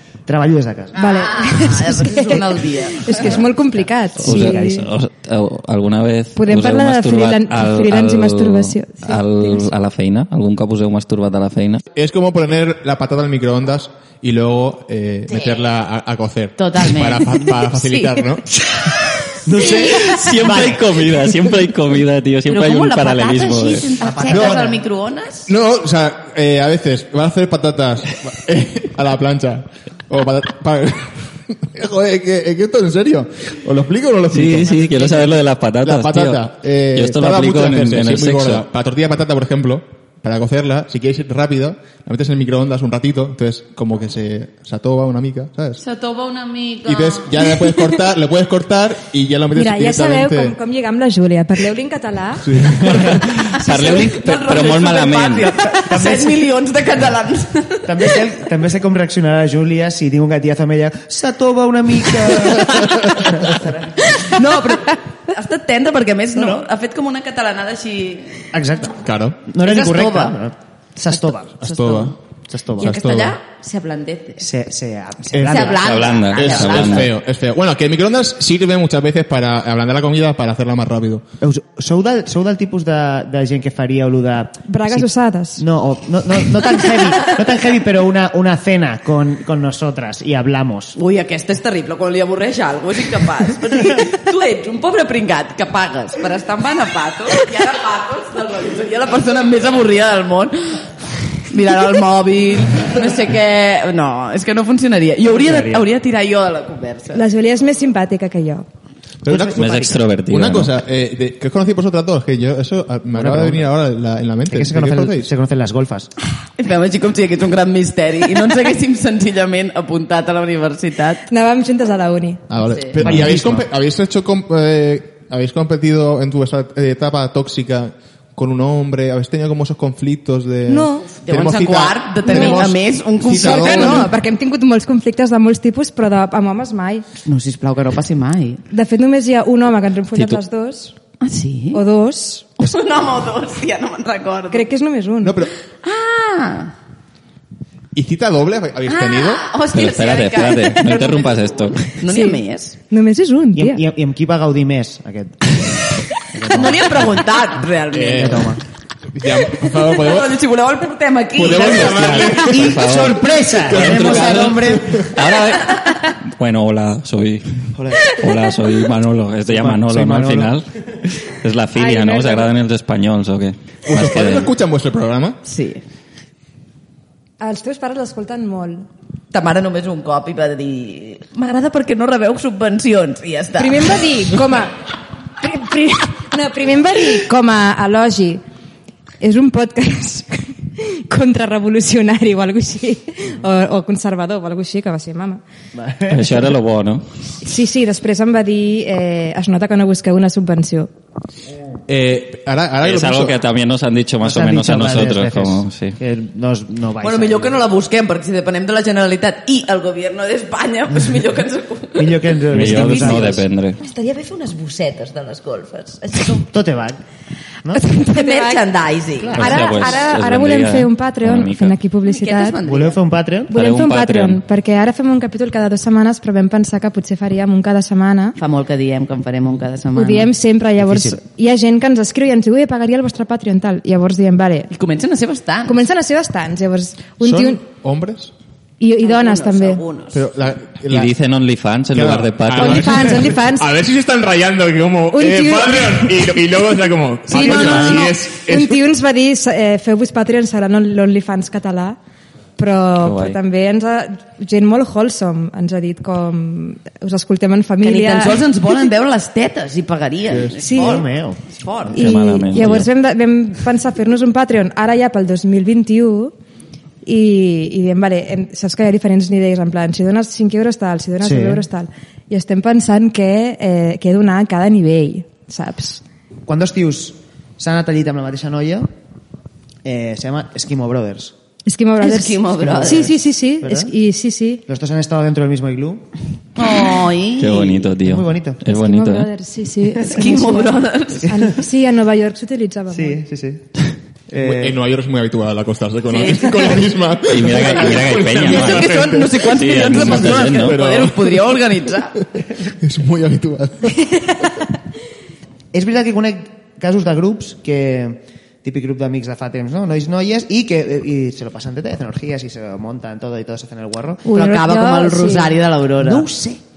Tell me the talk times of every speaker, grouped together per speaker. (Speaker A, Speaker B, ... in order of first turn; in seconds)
Speaker A: 0.2-1.0, 3.1-4.9, 19.4-20.9, 24.0-24.8, 55.6-56.5, 57.9-63.7, 66.3-66.6, 68.5-72.9, 74.4-76.6, 81.4-91.0, 105.3-105.9, 109.2-110.0, 113.1-113.7, 114.5-116.1, 123.0-123.6, 153.5-157.1, 158.1-158.6, 162.3-165.1, 167.8-168.1, 169.5-170.6, 195.7-196.6, 204.2-207.6, 211.9-213.4, 216.5-217.0, 219.2-219.7, 222.6-223.5, 230.8-231.2, 260.7-261.4, 271.2-271.6, 276.4-278.9, 279.8-281.3, 282.6-283.9, 284.6-286.1, 288.0-288.6, 292.9-293.7, 294.3-294.8, 305.7-314.2, 316.0-316.6
Speaker B: 0.9-4.9, 6.3-9.7, 49.5-52.5, 84.7-85.6, 107.1-108.7, 121.3-122.4, 130.7-131.1, 132.2-132.7, 133.3-137.1, 138.7-140.9, 141.7-142.5, 144.5-145.4, 152.1-153.8, 171.7-172.5, 177.4-178.9, 183.6-184.8, 185.4-188.4, 189.2-195.4, 197.4-200.9, 217.7-218.6, 219.3-222.6, 223.5-228.4, 229.9-234.7, 235.7-237.6, 238.8-239.8, 242.6-243.7, 245.1-246.3, 247.3-252.0, 252.6-258.5, 260.6-261.0, 261.9-266.3, 267.0-276.0, 281.6-284.6, 288.7-293.2, 314.2-315.6
Speaker C: 1.0-3.4, 15.3-15.6, 16.6-18.2, 22.5-25.5, 45.8-47.5, 53.5-58.2, 63.3-68.5, 69.6-70.4, 72.8-74.5, 75.4-77.1, 91.0-107.2, 116.6-121.3, 122.7-123.1, 131.2-134.1, 137.2-138.6, 141.2-141.8, 142.6-144.7, 145.8-146.7, 148.8-152.8, 156.4-158.5, 159.5-162.4, 175.4-175.8, 179.3-184.1, 207.0-216.5, 218.1-219.6, 222.1-223.0, 228.4-230.3, 234.7-235.8, 239.0-240.2, 257.8-262.1, 282.0-283.1, 286.6-287.9, 290.0-291.3, 296.1-296.9, 297.7-302.2, 314.3-316.3
Speaker D: 4.2-11.8, 19.8-23.9, 34.3-36.4, 36.9-38.6, 53.0-55.5, 75.7-77.1, 109.5-110.7, 140.1-140.4, 149.7-151.9, 161.7-170.7, 171.2-174.5, 196.1-197.0, 202.8-206.0, 212.5-213.8, 219.3-221.7, 223.5-224.4, 240.9-243.2, 247.4-248.0, 253.0-253.4, 261.9-262.9, 287.4-289.3, 297.3-298.9, 299.5-300.8
Speaker E: 11.9-18.4, 24.3-24.7, 25.5-45.8, 46.8-50.5, 52.4-53.4, 69.0-69.4, 71.6-72.2, 72.8-73.4, 75.3-75.7, 76.3-81.2, 109.2-109.7, 110.3-115.3, 122.5-134.1, 145.2-145.5, 147.9-149.4, 157.9-158.5, 159.1-160.4, 161.3-162.9, 163.7-165.1, 173.9-175.4, 201.9-203.3, 237.2-238.3, 240.1-241.1, 241.9-248.8, 260.3-260.6, 294.4-301.6, 302.7-304.4